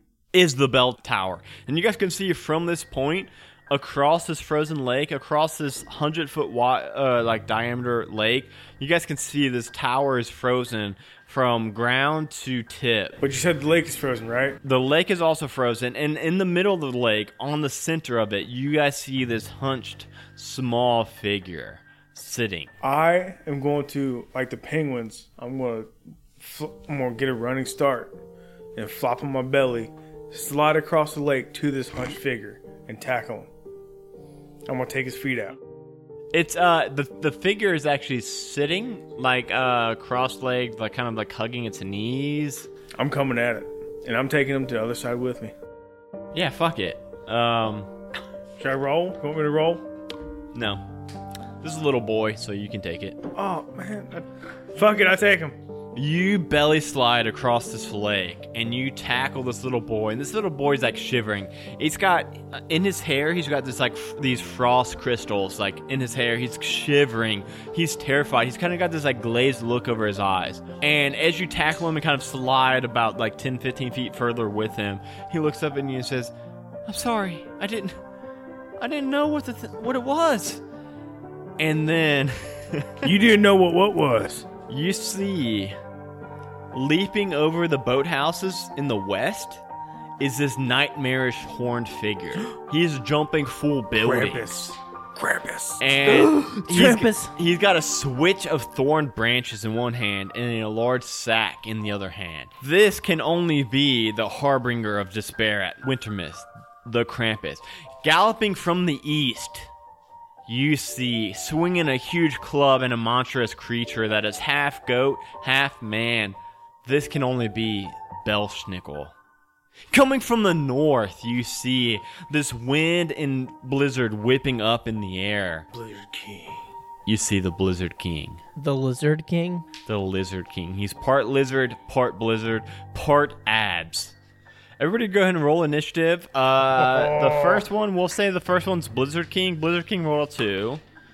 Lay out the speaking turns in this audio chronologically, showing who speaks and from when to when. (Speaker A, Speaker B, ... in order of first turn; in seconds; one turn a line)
Speaker A: 0.3-13.2
Speaker B: 13.2-14.6
Speaker A: 14.6-22.7
Speaker B: 22.8-28.2
Speaker B: 28.8-33.5
Speaker B: 34.7-35.6
Speaker A: 36.3-42.7
Speaker B: 43.0-45.5
Speaker A: 46.3-47.9
Speaker B: 48.6-49.9
Speaker A: 50.5-50.8
Speaker A: 51.6-53.2
Speaker B: 53.4-55.6
Speaker A: 56.0-76.3
Speaker A: 76.9-77.9
Speaker A: 78.8-80.6
Speaker A: 81.6-83.1
Speaker B: 83.0-84.5
Speaker A: 84.7-85.8
Speaker A: 86.7-89.6
Speaker A: 90.2-94.5
Speaker B: 94.0-95.9
Speaker A: 95.8-109.7
Speaker C: 96.1-97.3
Speaker A: 110.5-119.1
Speaker A: 119.9-125.7
Speaker B: 125.7-126.6
Speaker A: 127.1-128.4
Speaker C: 128.6-129.7
Speaker A: 129.9-134.2
Speaker A: 134.8-140.8
Speaker B: 136.8-137.7